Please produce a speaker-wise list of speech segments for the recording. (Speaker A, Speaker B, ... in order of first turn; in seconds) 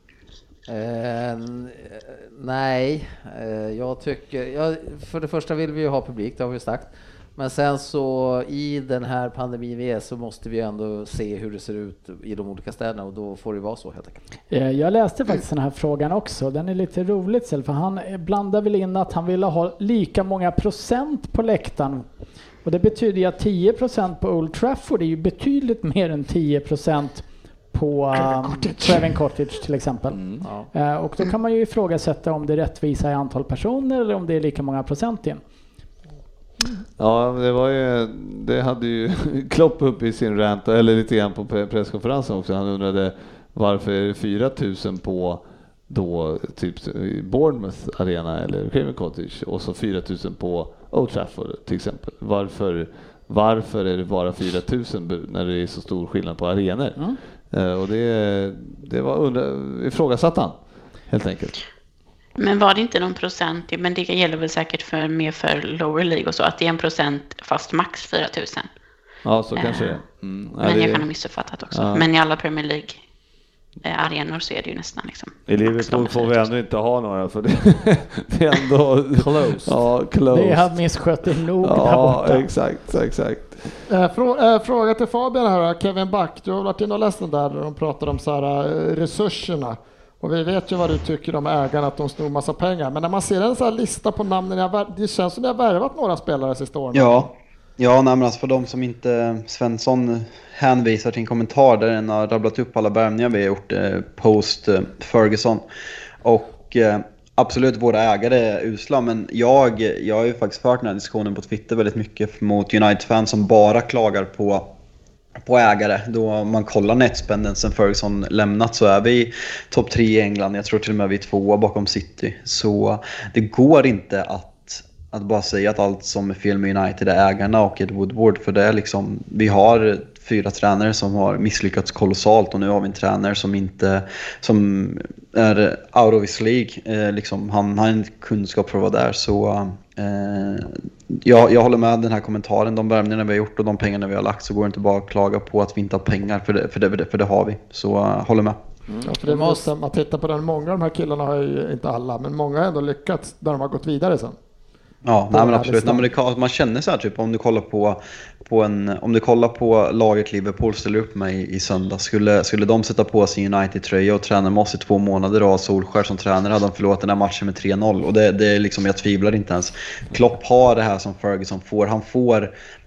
Speaker A: 0.7-14.2, 79.2-79.8, 148.9-149.7
Speaker B: 14.5-22.1, 22.6-35.4, 80.3-82.5
Speaker C: 28.2-29.0, 83.9-97.3, 149.1-154.4, 155.3-156.1
Speaker D: 30.1-30.5, 37.0-60.6, 61.1-61.6, 69.2-71.1, 71.7-72.1, 75.5-80.8, 81.6-83.7
Speaker E: 62.4-68.7, 69.6-70.0, 70.6-73.0, 73.8-76.4
Speaker F: 96.9-105.6, 106.2-114.7, 115.5-148.6, 155.1-172.5